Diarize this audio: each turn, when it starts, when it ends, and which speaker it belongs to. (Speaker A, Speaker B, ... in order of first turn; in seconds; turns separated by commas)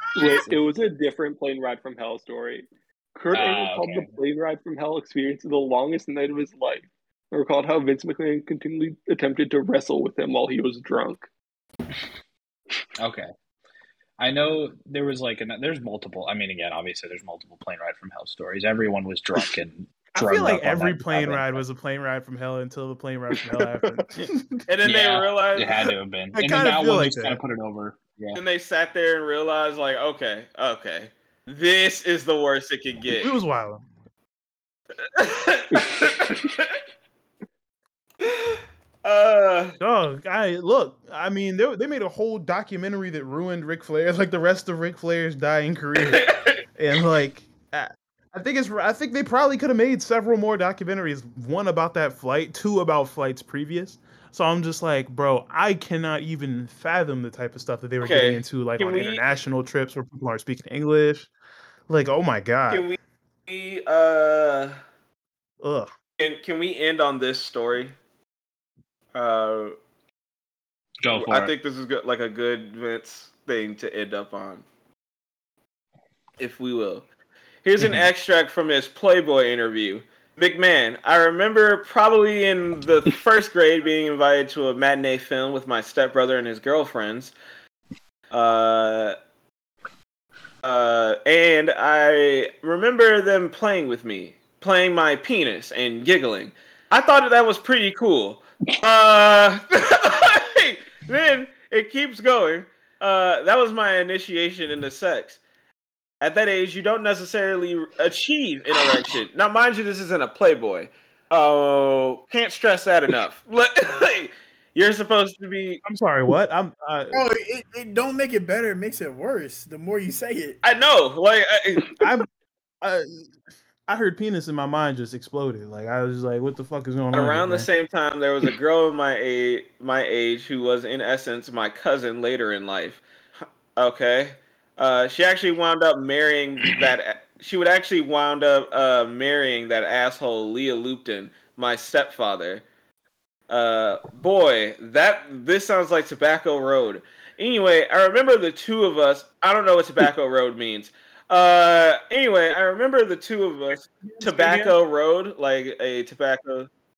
Speaker A: 0.1-11.3, Speaker B: 3.3-4.1, Speaker B: 13.0-13.3, Speaker B: 14.2-21.6, Speaker C: 20.1-24.5, Speaker D: 24.2-25.8, Speaker B: 24.8-28.4, Speaker C: 26.3-27.4, Speaker D: 28.4-33.3, Speaker C: 33.2-33.8, Speaker D: 35.1-36.8, Speaker D: 38.2-39.8, Speaker C: 39.8-61.3, Speaker D: 46.0-46.6, Speaker D: 58.0-59.2, Speaker C: 61.9-62.8, Speaker D: 62.7-64.8, Speaker C: 65.6-65.9, Speaker D: 66.2-68.0, Speaker D: 69.1-69.7, Speaker B: 71.0-71.5, Speaker D: 71.1-74.6, Speaker D: 76.4-77.1, Speaker D: 77.6-87.3, Speaker D: 88.3-89.1, Speaker D: 90.6-105.4, Speaker D: 106.2-115.8, Speaker C: 115.8-117.2, Speaker E: 117.1-120.6, Speaker D: 120.6-122.0, Speaker C: 122.0-122.3, Speaker C: 122.8-123.3, Speaker C: 123.9-127.7, Speaker D: 127.1-133.0, Speaker D: 133.8-142.6, Speaker D: 143.5-156.7, Speaker C: 154.0-154.7